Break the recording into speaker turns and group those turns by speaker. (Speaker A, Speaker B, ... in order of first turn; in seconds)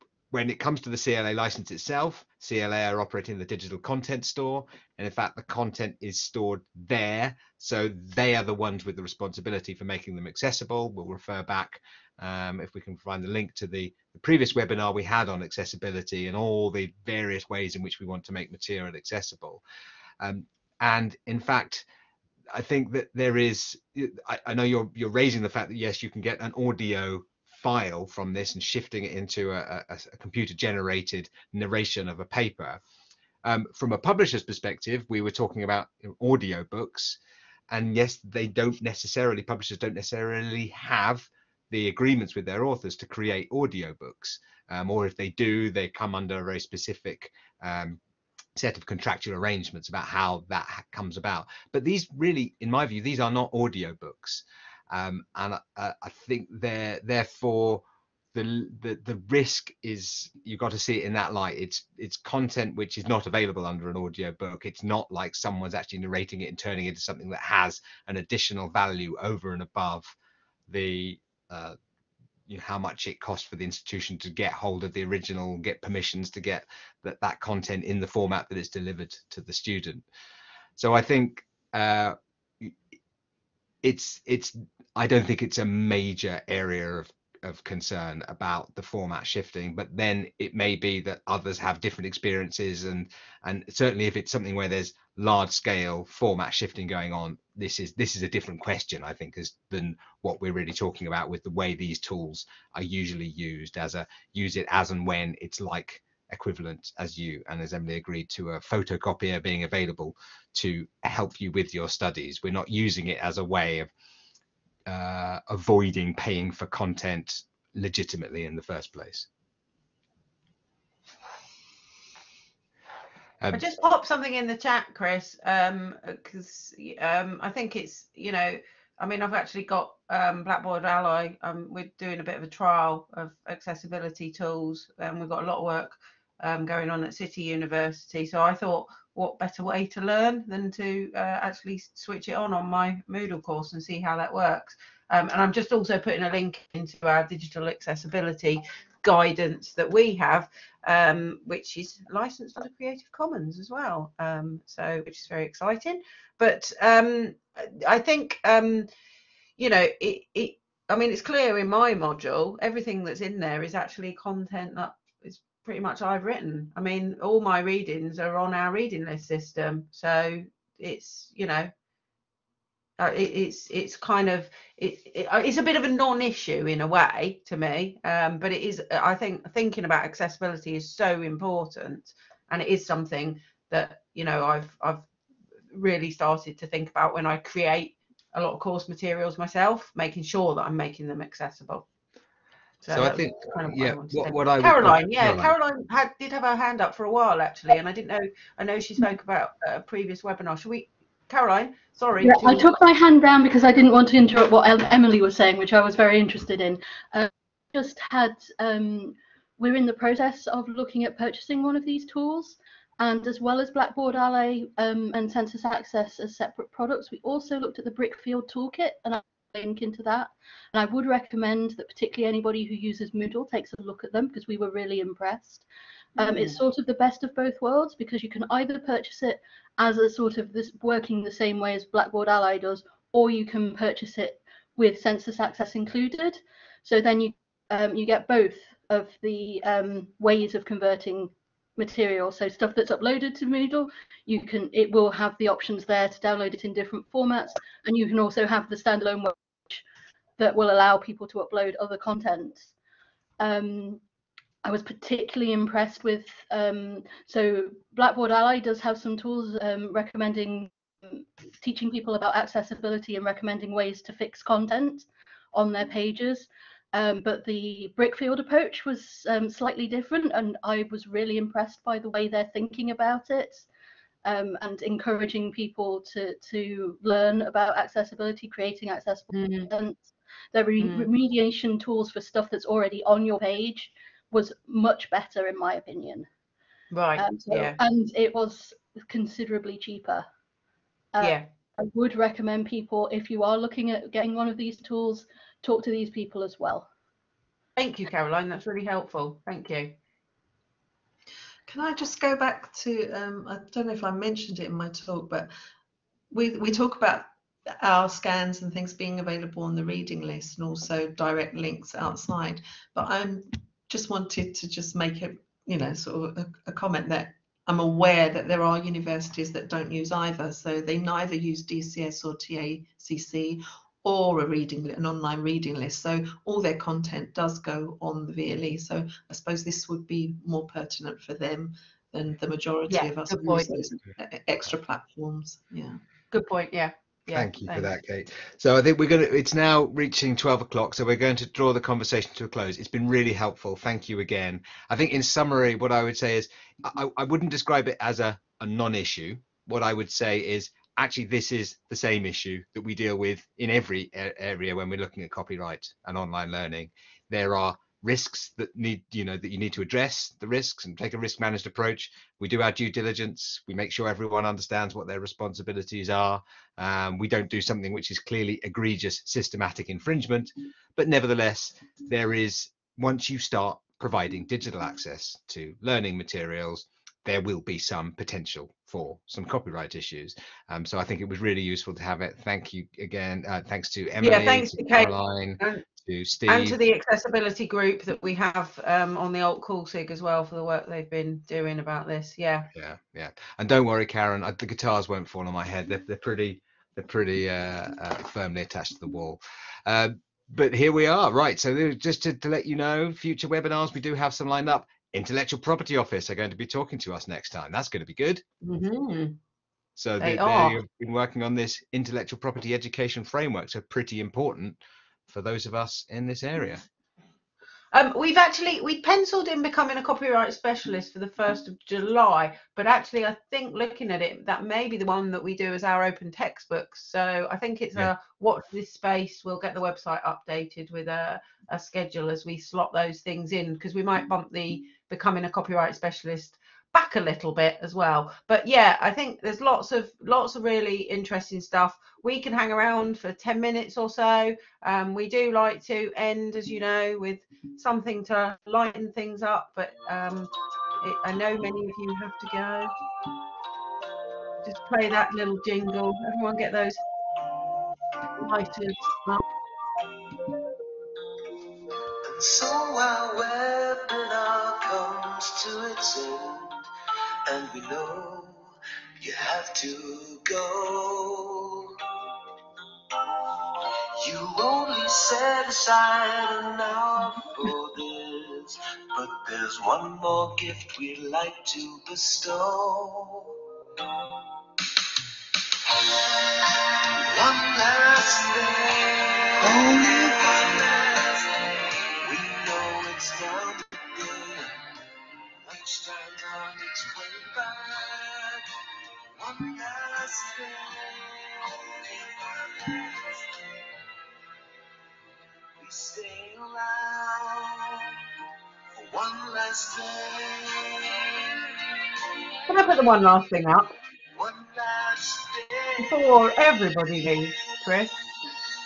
Speaker A: 0.3-19.6, 20.2-21.8, 22.5-32.8, 33.4-37.2, 37.7-48.0, 48.5-57.8, 58.3-70.1, 70.7-71.8, 72.5-80.0, 80.8-82.7, 83.8-113.9, 114.9-119.3, 192.9-195.5, 337.3-386.8, 392.7-408.4, 410.0-416.8
Speaker B: 123.5-158.9, 159.6-171.7, 173.0-185.1, 185.7-191.8, 192.8-202.7, 226.2-226.6, 279.3-279.7, 280.8-281.1, 286.9-287.8, 291.2-291.4, 297.8-299.9, 332.9-333.7, 336.3-337.9, 384.2-385.8, 386.5-392.7, 408.6-409.4, 410.2-410.8, 417.9-452.9, 454.6-457.0, 458.4-459.4, 512.7-513.9, 516.0-518.1
Speaker C: 202.2-225.6, 226.2-249.8, 250.4-252.7, 253.4-254.0, 254.6-273.6, 274.2-286.3, 287.1-290.3, 291.1-296.9
Speaker D: 301.7-305.5, 306.3-336.0
Speaker E: 462.2-466.8, 467.5-472.0, 474.2-483.5, 486.0-494.8, 495.6-498.6, 499.3-503.6, 505.8-508.1, 508.9-512.3, 514.3-516.5, 517.2-517.8